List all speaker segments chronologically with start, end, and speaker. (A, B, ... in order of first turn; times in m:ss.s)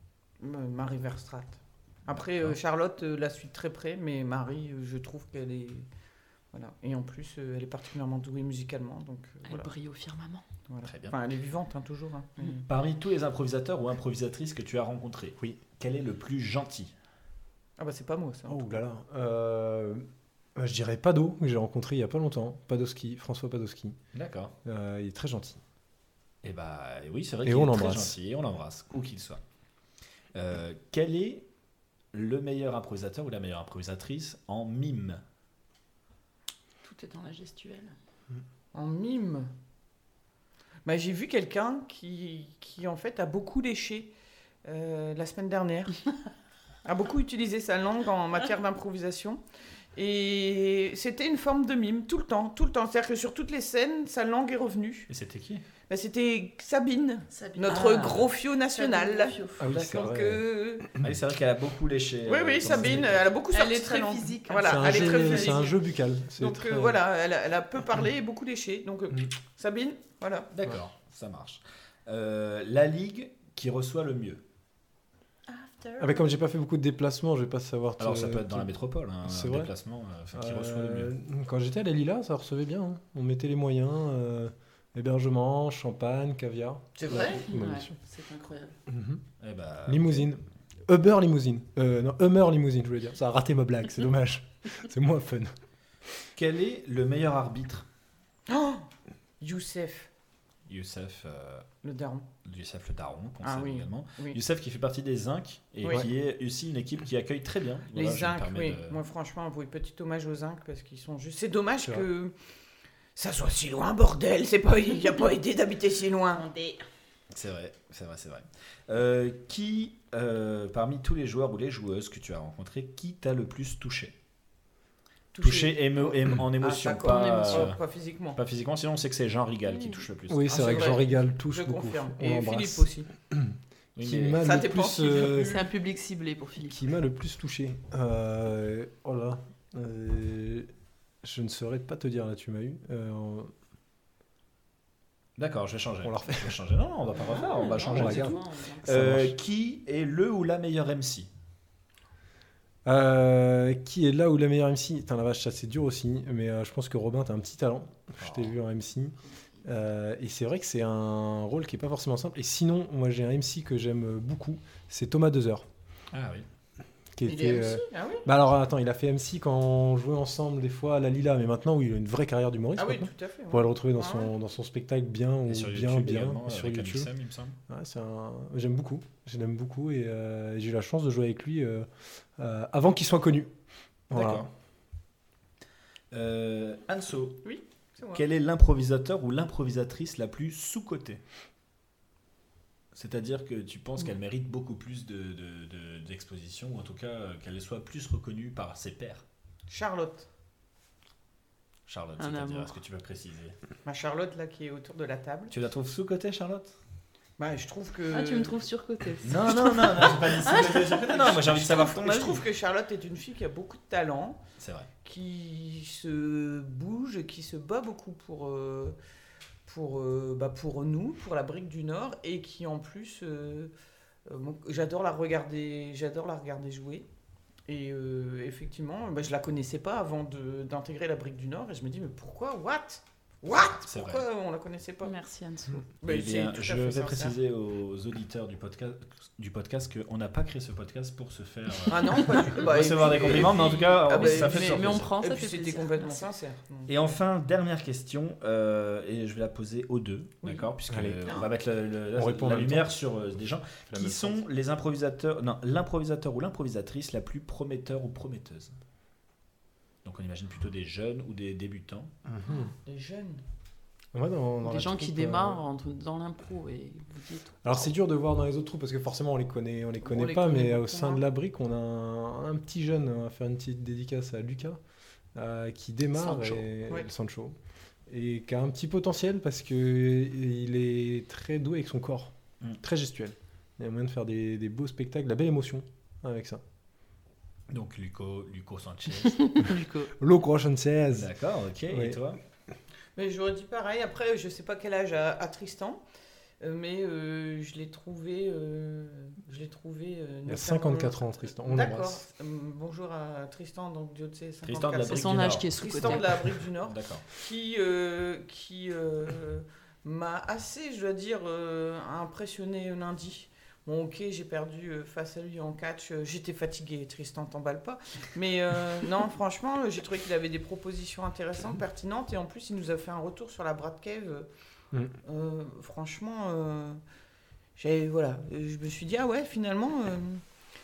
0:00.4-0:05.9 A
0:02.1-0:02.6 B
0:06.5-0:09.7 A
0:09.5-0:10.5 C
0:10.7-0:12.6 A
0:10.8-0:11.2 B
0:12.7-0:16.9 B
0:17.8-0:18.8 A
0:18.5-0:20.0 D
0:20.6-0:24.0 D
0:24.1-0:24.5 B
0:24.6-0:25.6 D
0:26.4-0:29.4 B
0:27.4-0:28.1 D
0:30.3-0:31.5 B
0:32.1-0:35.2 B
0:36.8-0:37.9 C
0:38.7-0:39.5 A
0:40.8-0:44.1 A
0:44.6-0:46.0 A
0:46.8-0:49.4 A
0:50.0-0:55.1 A
0:55.1-0:55.6 B
0:55.9-1:00.9 A
0:57.3-0:59.7 C
0:57.7-0:58.1 B
0:59.6-1:00.4 D
0:59.6-1:00.4 B
1:01.0-1:03.3 B
1:02.3-1:05.8 A
1:02.6-1:03.0 D
1:03.5-1:05.7 C
1:04.6-1:07.0 D
1:06.4-1:10.5 A
1:10.5-1:14.4 B
1:15.5-1:16.1 C
1:16.0-1:18.7 D
1:18.0-1:21.1 B
1:19.2-1:19.7 D
1:20.3-1:27.9 D
1:27.0-1:27.4 A
1:27.1-1:28.8 C
1:28.9-1:29.2 D
1:29.4-1:30.3 B
1:29.9-1:35.5 D
1:36.4-1:37.8 B
1:38.5-1:38.9 A
1:39.4-1:40.1 A
1:40.7-1:41.7 B
1:41.8-1:42.3 A
1:42.4-1:49.0 B
1:43.4-1:44.4 A
1:47.9-1:52.3 A
1:51.8-1:52.1 D
1:53.2-1:56.5 A
1:56.4-1:56.8 C
1:57.3-2:04.2 B
2:05.3-2:08.4 A
2:05.4-2:07.8 B
2:07.0-2:07.7 C
2:08.3-2:10.9 B
2:10.3-2:15.6 D
2:10.5-2:13.1 A
2:14.0-2:14.5 B
2:14.4-2:15.6 A
2:15.4-2:16.8 C
2:16.6-2:20.7 D
2:21.2-2:23.5 D
2:25.4-2:31.3 B
2:26.0-2:26.6 D
2:27.2-2:29.0 C
2:27.8-2:29.3 D
2:32.8-2:45.7 D
2:38.2-2:38.5 B
2:46.1-2:46.5 B
2:47.2-2:57.1 D
2:47.3-2:48.3 A
2:52.8-2:54.3 A
2:55.5-2:57.6 B
2:57.7-3:03.5 D
3:04.1-3:04.5 D
3:04.1-3:04.5 B
3:06.1-3:07.5 B
3:07.4-3:08.2 A
3:08.1-3:11.2 B
3:12.9-3:19.2 B
3:19.7-3:20.3 A
3:21.9-3:23.6 B
3:22.2-3:22.8 C
3:23.8-3:25.5 A
3:25.5-3:26.8 B
3:27.4-3:28.5 A
3:28.1-3:31.0 C
3:29.2-3:32.4 B
3:30.1-3:34.4 A
3:34.6-3:34.9 B
3:35.0-3:39.0 A
3:39.7-3:43.7 A
3:44.3-3:47.1 A
3:47.7-3:55.1 A
3:53.7-3:54.2 B
3:55.0-3:55.8 C
3:56.0-3:57.4 A
3:56.0-4:05.1 B
4:01.9-4:07.0 A
4:04.1-4:06.2 C
4:06.9-4:18.7 B
4:10.9-4:11.2 D
4:12.2-4:13.0 D
4:13.9-4:14.4 D
4:20.0-4:22.1 B
4:22.3-4:22.7 D
4:22.8-4:23.4 A
4:24.1-4:25.6 D
4:24.6-4:27.6 C
4:27.6-4:34.8 D
4:30.0-4:31.2 A
4:35.4-4:37.6 D
4:36.2-4:37.1 A
4:38.1-4:46.6 D
4:47.7-4:49.7 B
4:49.3-4:50.1 C
4:50.1-4:51.3 D
4:51.1-4:52.4 B
4:51.9-4:52.2 D
4:53.2-4:56.0 A
4:56.6-5:24.5 A
5:00.5-5:02.2 D
5:04.6-5:07.3 B
5:05.1-5:06.3 C
5:25.2-5:27.0 A
5:27.8-5:30.4 A